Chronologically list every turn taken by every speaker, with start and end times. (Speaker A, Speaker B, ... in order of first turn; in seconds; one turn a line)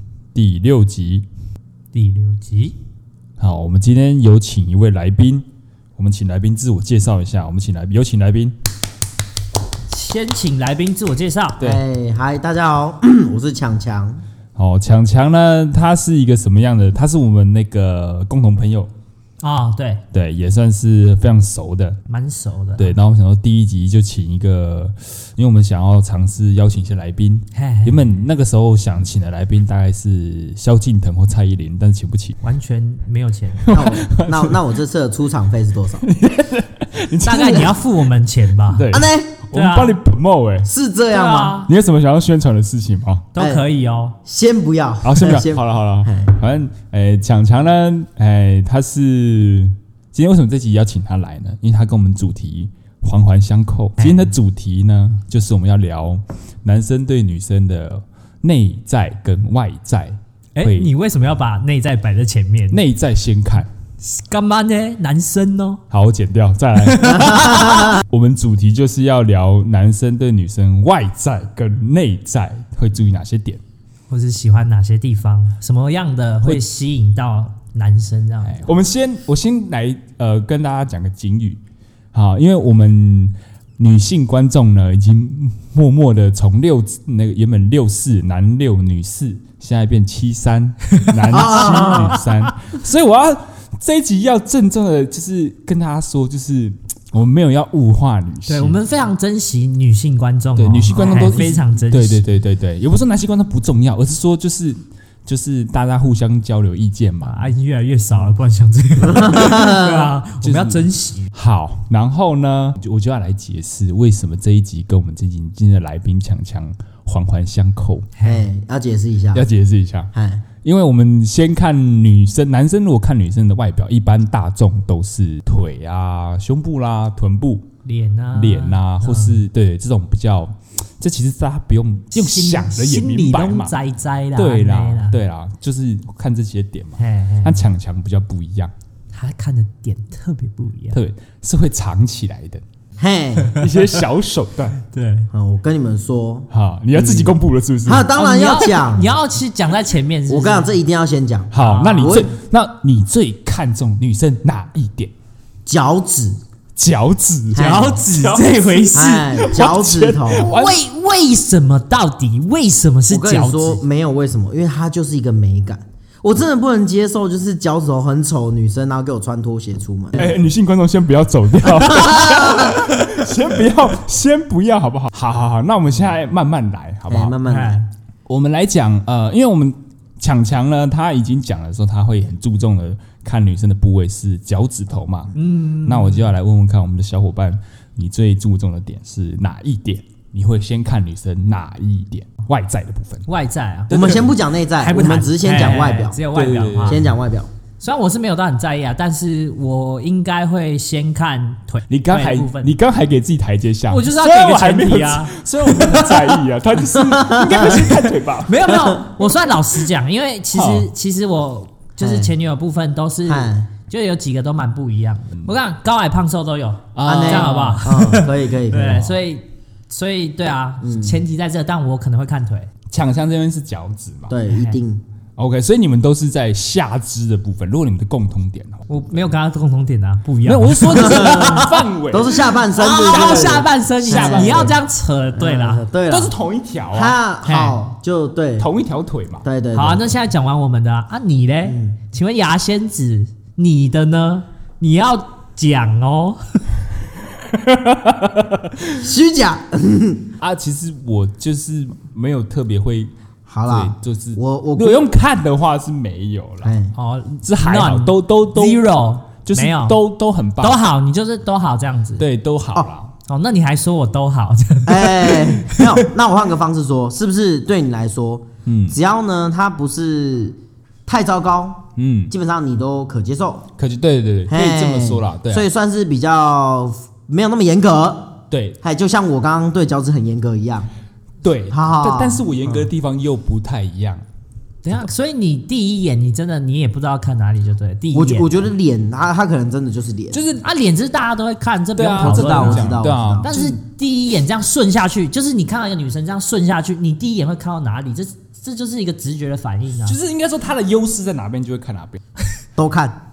Speaker A: 0.3-1.3
Speaker B: 1.9-2.8
Speaker A: 3.4-8.6
Speaker B: 9.9-11.6
Speaker C: 11.6-14.2
Speaker A: 14.6-18.9
Speaker B: 19.4-20.0
Speaker A: 20.1-22.0
Speaker B: 22.1-23.0
Speaker A: 22.8-32.4
Speaker B: 27.5-28.2
Speaker B: 32.4-33.8
Speaker A: 33.6-34.6
Speaker C: 33.7-36.0
Speaker A: 36.0-37.8
Speaker B: 37.3-40.0
Speaker A: 38.7-40.7
Speaker C: 38.9-39.3
Speaker C: 40.7-41.6
Speaker B: 41.1-41.7
Speaker A: 41.7-43.3
Speaker B: 43.4-44.2
Speaker C: 43.4-43.6
Speaker C: 44.2-46.3
Speaker A: 45.0-60.9
Speaker B: 54.0-54.3
Speaker B: 60.6-62.8
Speaker A: 62.7-63.7
Speaker B: 64.0-65.8
Speaker A: 65.9-73.6
Speaker B: 66.8-68.0
Speaker B: 74.1-78.7
Speaker A: 78.5-81.6
Speaker A: 82.1-98.8
Speaker C: 91.3-92.2
Speaker B: 91.3-92.5
Speaker B: 98.5-102.2
Speaker A: 100.6-107.5
Speaker C: 100.9-101.4
Speaker B: 107.2-111.3
Speaker C: 109.0-110.1
Speaker A: 110.4-118.1
Speaker B: 118.2-118.5
Speaker C: 118.2-119.5
Speaker A: 119.3-120.1
Speaker C: 120.1-120.4
Speaker A: 120.6-127.7
Speaker B: 127.8-129.4
Speaker A: 128.3-133.8
Speaker B: 132.1-135.2
Speaker A: 134.3-138.7
Speaker B: 137.0-137.7
Speaker B: 139.1-141.0
Speaker A: 140.9-142.6
Speaker C: 143.0-143.6
Speaker A: 143.5-144.8
Speaker B: 144.8-145.3
Speaker C: 145.3-147.3
Speaker A: 146.5-148.1
Speaker C: 147.9-149.2
Speaker B: 148.2-150.7
Speaker C: 150.3-152.3
Speaker A: 151.5-155.1
Speaker B: 151.6-152.2
Speaker C: 155.7-156.4
Speaker A: 156.8-160.8
Speaker C: 157.5-158.0
Speaker B: 157.6-159.4
Speaker C: 158.9-160.6
Speaker B: 160.3-163.8
Speaker C: 163.1-170.3
Speaker A: 170.1-177.4
Speaker C: 171.8-173.1
Speaker C: 177.1-177.9
Speaker B: 177.4-177.9
Speaker A: 178.3-193.3
Speaker B: 185.3-186.3
Speaker B: 193.3-197.1
Speaker C: 193.9-196.2
Speaker A: 193.9-194.2
Speaker A: 196.3-197.1
Speaker C: 196.8-197.5
Speaker B: 197.8-202.8
Speaker A: 201.9-208.8
Speaker B: 203.9-206.4
Speaker C: 207.0-207.8
Speaker B: 208.4-222.7
Speaker A: 210.5-210.9
Speaker C: 212.0-212.3
Speaker C: 213.3-213.7
Speaker A: 216.9-217.9
Speaker C: 217.1-219.2
Speaker C: 220.8-221.2
Speaker A: 222.9-224.3
Speaker C: 224.3-225.0
Speaker B: 224.5-224.8
Speaker A: 225.4-228.9
Speaker B: 228.9-231.9
Speaker A: 230.4-234.7
Speaker C: 230.9-234.8
Speaker B: 232.8-235.8
Speaker C: 235.3-236.3
Speaker A: 236.1-237.2
Speaker C: 236.9-238.7
Speaker B: 237.4-237.8
Speaker A: 238.6-239.4
Speaker C: 239.4-240.2
Speaker B: 239.7-246.6
Speaker C: 241.7-242.0
Speaker A: 247.4-249.1
Speaker C: 249.0-250.3
Speaker A: 250.4-253.1
Speaker C: 253.5-255.1
Speaker A: 253.7-256.8
Speaker C: 256.6-257.0
Speaker B: 257.0-260.0
Speaker A: 257.4-258.8
Speaker A: 259.4-260.8
Speaker B: 260.6-262.2
Speaker A: 262.2-263.1
Speaker B: 263.3-266.0
Speaker C: 264.9-273.7
Speaker A: 268.7-269.0
Speaker A: 272.0-272.3
Speaker A: 273.8-275.7
Speaker C: 274.5-280.9
Speaker A: 278.5-278.8
Speaker A: 281.4-284.2
Speaker C: 281.7-282.9
Speaker B: 284.8-288.6
Speaker C: 288.1-290.4
Speaker A: 290.3-290.6
Speaker B: 290.6-300.2
Speaker A: 292.0-293.8
Speaker C: 292.2-293.5
Speaker A: 300.1-302.2
Speaker C: 302.8-303.2